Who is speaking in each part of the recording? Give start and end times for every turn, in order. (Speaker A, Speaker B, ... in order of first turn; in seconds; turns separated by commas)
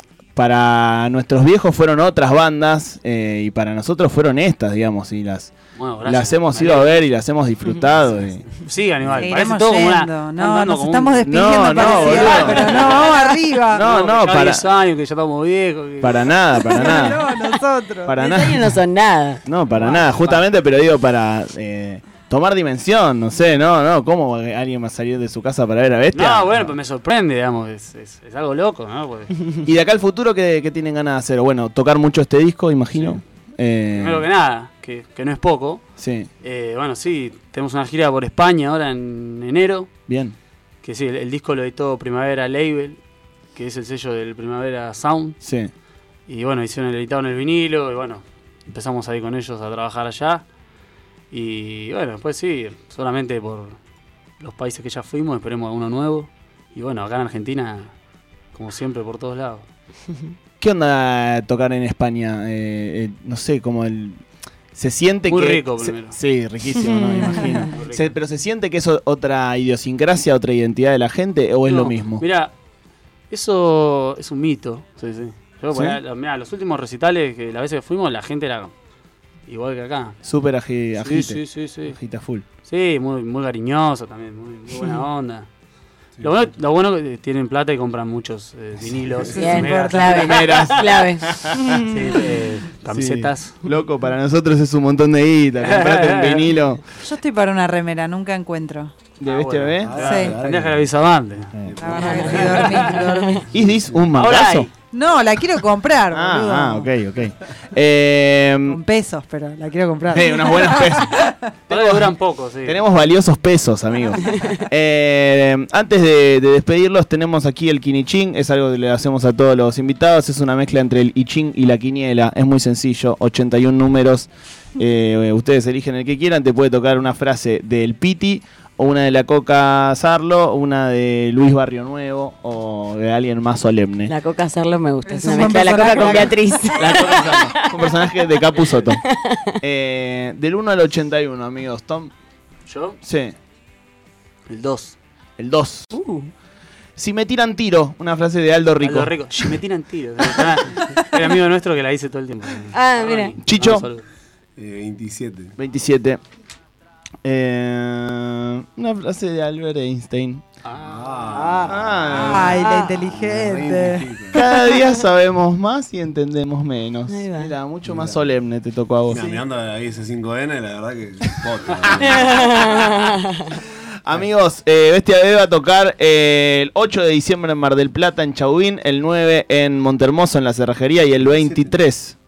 Speaker A: 0.3-8.5, Speaker B: 5.8-7.1, Speaker B: 8.5-16.4, Speaker C: 9.2-13.9, Speaker A: 11.2-13.1, Speaker A: 13.7-14.6, Speaker A: 16.0-17.4, Speaker C: 16.7-18.2, Speaker A: 18.1-18.8, Speaker D: 18.2-19.4, Speaker A: 19.4-26.7, Speaker B: 19.7-20.5, Speaker B: 26.1-29.4, Speaker A: 29.6-34.3, Speaker B: 32.9-33.2, Speaker B: 33.9-35.9, Speaker A: 36.0-36.3, Speaker B: 36.4-39.9, Speaker A: 40.1-40.4, Speaker B: 40.8-43.0, Speaker B: 43.5-45.4, Speaker A: 45.4-45.7, Speaker B: 46.3-50.5, Speaker B: 51.3-53.8, Speaker B: 54.4-57.9, Speaker B: 58.5-59.7, Speaker A: 60.6-72.2, Speaker B: 65.3-66.2, Speaker D: 66.9-67.7, Speaker B: 67.6-68.2, Speaker B: 71.7-72.5, Speaker B: 73.3-78.7, Speaker A: 75.7-76.0, Speaker B: 79.5-80.2, Speaker A: 80.2-82.5, Speaker B: 81.0-82.0, Speaker B: 82.7-85.5, Speaker E: 86.2-86.5, Speaker B: 86.2-90.8, Speaker E: 89.0-89.4, Speaker D: 89.3-91.9, Speaker C: 89.3-90.3, Speaker A: 90.0-91.8, Speaker B: 91.8-93.6, Speaker A: 92.9-96.8, Speaker B: 95.6-96.5, Speaker C: 97.0-99.1, Speaker A: 99.2-100.0, Speaker B: 99.2-101.6, Speaker E: 99.8-100.9, Speaker C: 100.0-100.4, Speaker A: 101.5-101.9, Speaker E: 101.6-104.1, Speaker C: 101.8-103.5, Speaker D: 102.0-102.3, Speaker B: 102.2-103.0, Speaker A: 103.5-104.7, Speaker B: 104.1-104.7, Speaker C: 104.9-106.9, Speaker A: 106.1-108.8, Speaker C: 108.7-111.4, Speaker A: 110.1-134.1, Speaker B: 111.7-112.8, Speaker D: 134.1-139.6, Speaker C: 135.1-136.8, Speaker A: 135.8-142.1, Speaker B: 142.7-143.0, Speaker A: 143.0-143.4, Speaker B: 144.5-145.0, Speaker A: 145.4-145.9, Speaker D: 145.9-146.3, Speaker A: 147.0-149.5, Speaker B: 148.8-154.1, Speaker D: 152.7-153.4, Speaker A: 153.4-153.9, Speaker E: 154.6-155.6, Speaker A: 155.6-156.2, Speaker A: 157.2-160.4, Speaker B: 160.6-162.1, Speaker E: 160.8-164.4, Speaker A: 161.7-162.6, Speaker C: 162.2-164.1, Speaker A: 164.3-169.2, Speaker D: 167.1-167.5, Speaker E: 167.8-168.3, Speaker E: 169.1-172.9, Speaker B: 169.1-169.4, Speaker A: 172.0-172.9, Speaker D: 172.1-173.4, Speaker A: 173.7-182.2, Speaker E: 181.2-181.8